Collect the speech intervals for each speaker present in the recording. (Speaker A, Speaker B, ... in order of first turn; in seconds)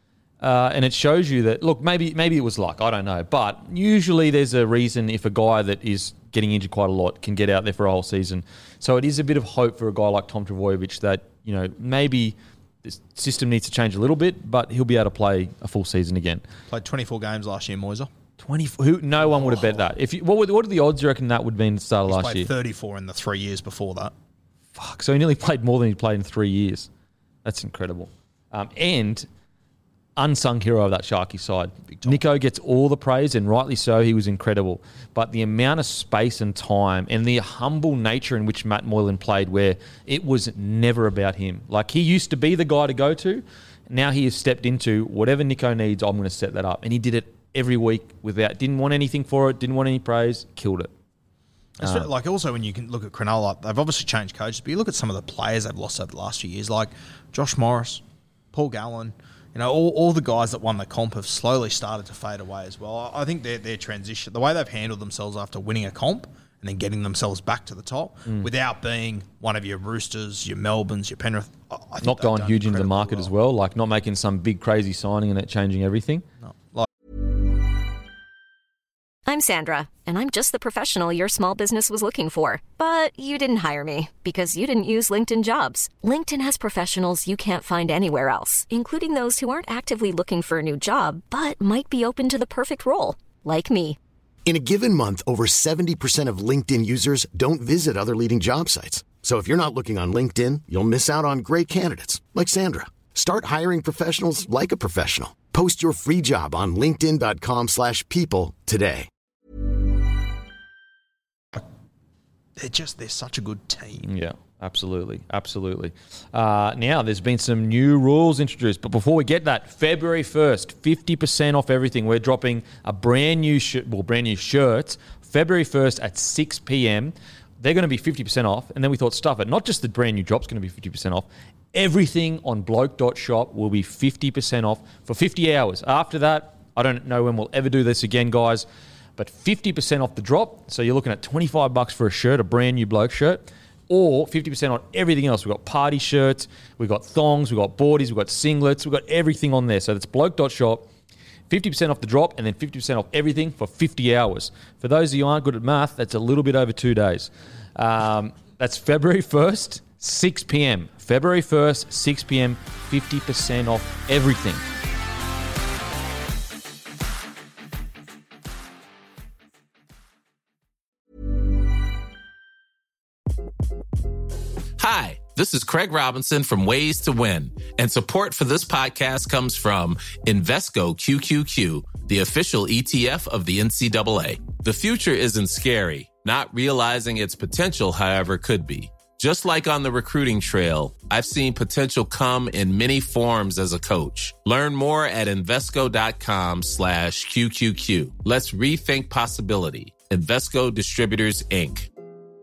Speaker A: 0.4-16.4, 18.4-22.5, 24.8-26.9, 27.4-29.3, 30.2-50.9, 51.8-52.1, 72.0-76.2, 114.0-138.7, 139.2-150.9, 151.5-164.6
Speaker B: 16.7-18.1, 19.2-19.9, 22.1-24.1, 31.9-32.3, 51.8-58.0, 58.5-73.3, 76.4-76.9, 112.6-114.1
Speaker C: 79.3-94.0
Speaker D: 94.5-109.1
Speaker E: 174.8-201.9